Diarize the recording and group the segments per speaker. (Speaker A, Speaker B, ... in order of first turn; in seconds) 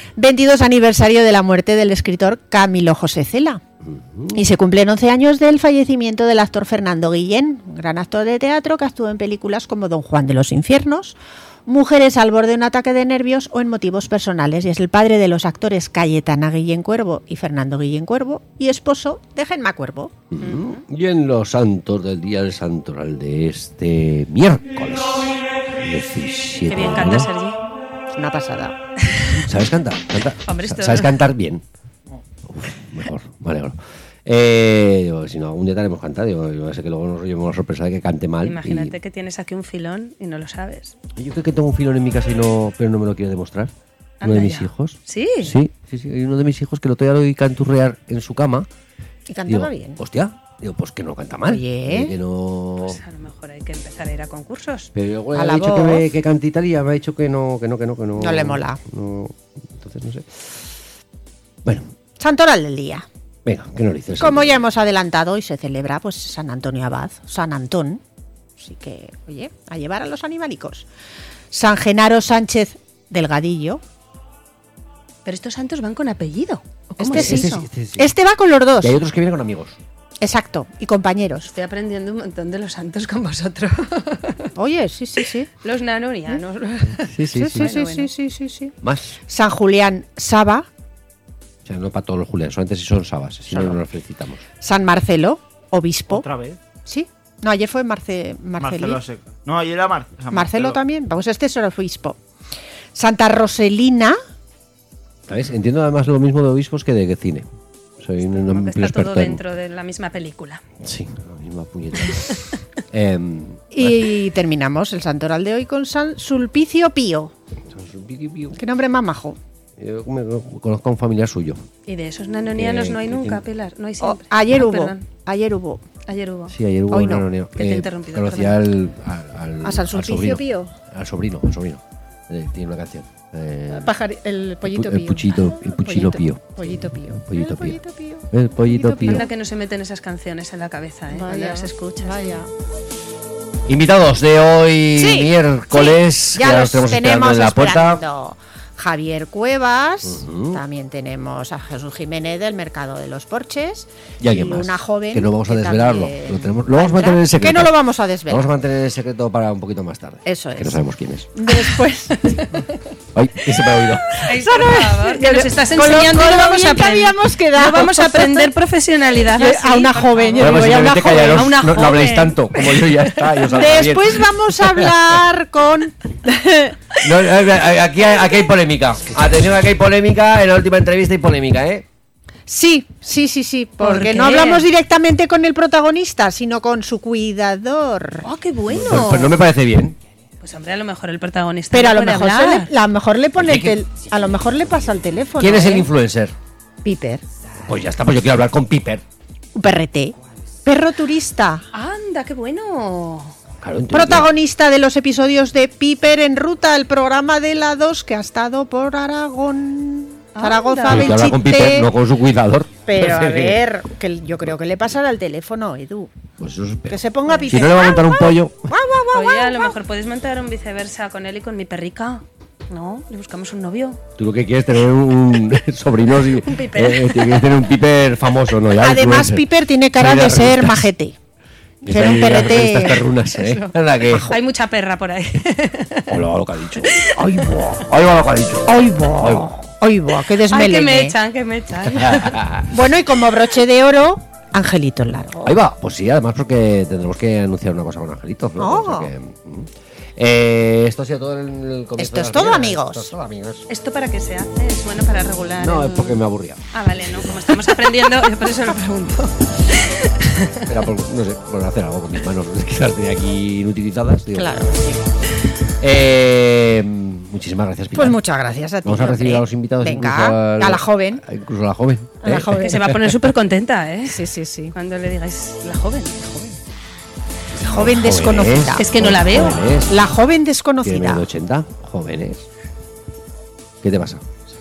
Speaker A: 0.2-3.6, 4.3-20.1, 28.1-28.8, 49.3-50.0, 51.5-52.1, 55.3-56.1, 58.2-58.8, 62.2-63.0, 64.2-68.0, 68.6-70.9, 71.5-73.8, 77.0-79.0, 80.2-81.5, 84.5-85.5, 87.3-88.7, 89.3-90.7, 93.5-93.8, 94.6-96.2, 96.8-99.0, 100.3-102.2, 102.9-104.2, 113.7-117.3, 118.5-119.4, 124.0-125.8, 126.9-127.3, 129.6-130.7, 133.7-139.3, 141.1-142.5, 144.9-158.5, 160.2-160.8, 161.3-162.6, 164.2-168.5, 169.3-171.6, 173.5-176.8, 182.5-188.3, 191.7-195.9, 196.8-197.2, 199.5-201.7, 203.9-211.9, 212.8-216.1, 216.9-219.7, 228.8-231.2, 231.8-233.0, 234.1-234.3, 238.7-241.2, 242.7-245.5, 248.6-249.1, 252.0-253.1, 264.4-265.0, 267.9-271.2, 272.2-272.9, 274.1-274.7, 277.6-278.9, 279.9-281.3
Speaker B: 3.8-4.4, 20.3-27.3, 29.4-31.6, 32.5-39.0, 41.1-48.7, 49.5-53.0, 54.9-60.7, 61.6-61.9, 63.4-64.6, 77.1-78.1, 78.8-79.8, 87.0-87.7, 88.8-89.2, 91.6-94.4, 105.3-107.5, 108.0-109.4, 110.8-114.1, 117.7-118.6, 119.8-121.7, 122.5-123.4, 126.5-133.9, 134.6-137.8, 138.3-139.3, 143.7-148.0, 150.0-150.6, 154.2-161.3, 163.1-164.2, 170.4-175.1, 177.0-181.8, 188.7-190.0, 193.4-193.8, 195.4-196.3, 197.7-199.0, 203.6-204.3, 210.9-213.6, 216.4-218.7, 224.2-230.9, 231.8-234.3, 236.1-239.5, 241.8-242.7, 245.4-253.7, 255.6-257.5, 260.6-264.6, 265.8-268.2, 268.8-273.2, 277.6-280.1, 280.8-282.5, 283.8-284.2
Speaker C: 20.4-20.7, 26.7-27.6, 30.4-31.1, 38.4-41.0, 44.2-45.5, 52.8-54.9, 75.2-77.7, 81.5-84.5, 85.6-88.1, 108.4-110.6, 121.9-125.0, 126.0-126.5, 127.5-128.6, 139.0-142.4, 164.1-173.5, 183.8-184.7, 188.2-189.4, 190.4-192.7, 201.7-203.4, 210.3-211.1, 219.1-224.0, 226.4-227.4, 233.3-236.2, 236.8-237.8, 240.5-242.5, 253.7-256.2, 256.7-260.7, 272.4-276.2, 278.8-279.6
Speaker D: 96.1-96.6, 98.6-100.8